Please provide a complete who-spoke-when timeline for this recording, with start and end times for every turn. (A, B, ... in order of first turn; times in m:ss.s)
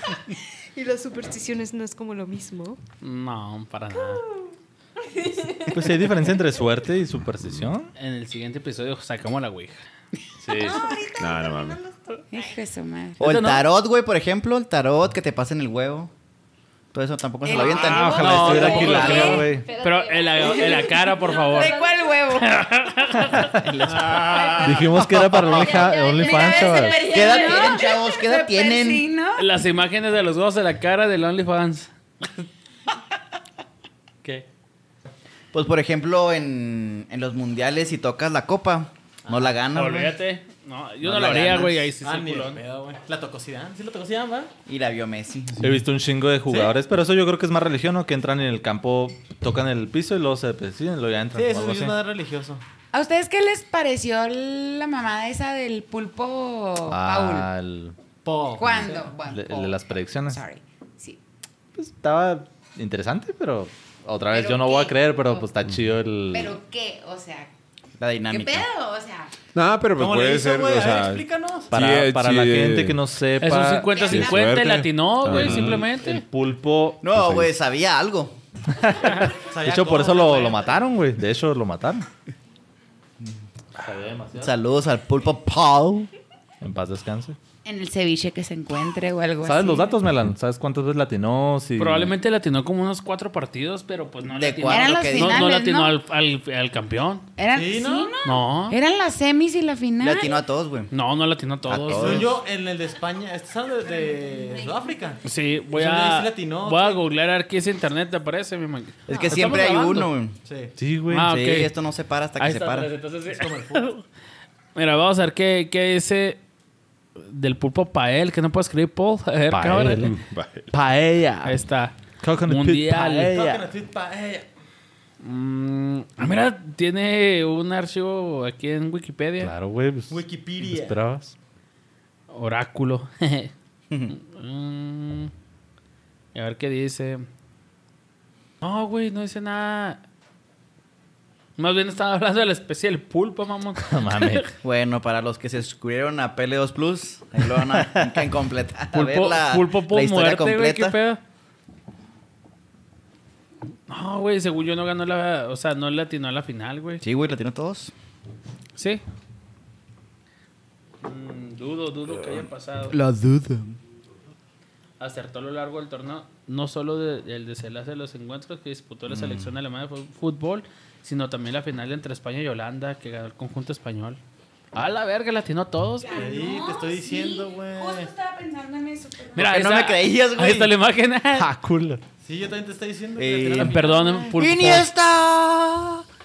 0:00.8-0:02.8 A
0:03.0-0:04.2 B
0:05.3-0:05.8 A
0:05.7-0:07.9 C
0:08.0-0:09.8 B
0:10.4-0:10.9 C
0:10.6-0:12.5 A
0:11.2-0:11.8 D
0:12.3-0:13.2 E
0:13.2-0:16.1 F
0:13.2-0:13.6 B
0:16.9-0:19.4 F
0:17.4-0:19.4 E
0:17.5-0:18.4 A
0:17.9-0:19.7 C
0:18.2-0:21.8 B
0:19.0-0:22.1 A
0:20.6-0:22.6 E
0:22.4-0:24.8 B
0:23.2-0:23.7 C
0:24.2-0:24.8 A
0:24.6-0:27.2 C
0:25.4-0:27.9 A
0:26.2-0:29.4 E
0:27.1-0:29.0 F
0:29.4-0:31.9 B
0:35.5-0:40.2 F
0:39.7-0:42.6 B
0:41.0-0:41.8 F
0:42.0-0:44.5 G
0:44.7-0:45.8 F
0:45.6-0:52.0 C
0:51.3-0:52.6 G
0:52.9-0:57.5 E
0:56.9-0:58.0 C
0:58.2-0:59.2 G
0:58.6-1:01.2 E
0:59.2-1:00.4 C
1:01.8-1:06.6 C
1:04.3-1:05.5 E
1:06.3-1:07.5 E
1:08.0-1:08.7 F
1:08.3-1:09.3 E
1:09.5-1:13.0 D
1:10.0-1:11.7 G
1:11.7-1:14.0 C
1:13.4-1:16.2 B
1:13.9-1:14.5 E
1:14.0-1:15.9 D
1:15.3-1:17.5 C
1:17.0-1:18.4 F
1:18.7-1:22.1 C
1:19.3-1:20.8 G
1:23.8-1:24.5 C
1:24.4-1:26.1 F
1:26.6-1:27.4 C
1:27.6-1:30.0 E
1:29.4-1:32.1 C
1:31.8-1:37.3 B
1:34.2-1:35.5 F
1:34.7-1:36.0 E
1:37.4-1:40.3 E
1:37.5-1:38.1 G
1:38.2-1:38.8 B
1:40.0-1:40.9 F
1:40.9-1:42.3 B
1:41.6-1:42.3 F
1:41.9-1:47.0 G
1:45.2-1:50.1 B
1:49.1-1:50.4 F
1:50.4-1:50.7 G
1:50.8-1:51.3 C
1:51.1-1:51.7 B
1:51.3-1:52.9 F
1:52.4-1:54.0 B
1:53.2-1:53.9 G
1:54.7-1:56.4 B
1:57.2-2:00.1 B
1:59.5-2:00.2 C
2:00.0-2:00.7 D
2:00.7-2:01.6 C
2:01.4-2:03.3 B
2:02.2-2:03.7 C
2:03.3-2:04.5 G
2:05.2-2:09.5 B
2:09.4-2:11.3 C
2:10.1-2:11.0 G
2:12.3-2:13.5 B
2:13.9-2:14.2 F
2:14.1-2:15.3 B
2:16.3-2:17.2 B
2:18.6-2:20.0 B
2:21.6-2:24.5 B
2:23.8-2:24.5 C
2:24.6-2:31.0 F
2:27.7-2:28.1 C
2:28.9-2:31.2 B
2:33.9-2:37.0 B
2:37.0-2:37.9 F
2:38.8-2:39.0 B
2:41.0-2:43.0 B
2:42.9-2:43.8 F
2:45.0-2:54.2 B
2:49.1-2:49.5 F
2:54.7-2:56.2 B
2:56.0-2:59.5 E
2:56.1-2:58.1 G
2:59.3-3:00.8 F
2:59.3-3:01.5 B
3:01.4-3:02.0 C
3:02.2-3:04.0 G
3:03.2-3:06.0 F
3:03.6-3:04.9 B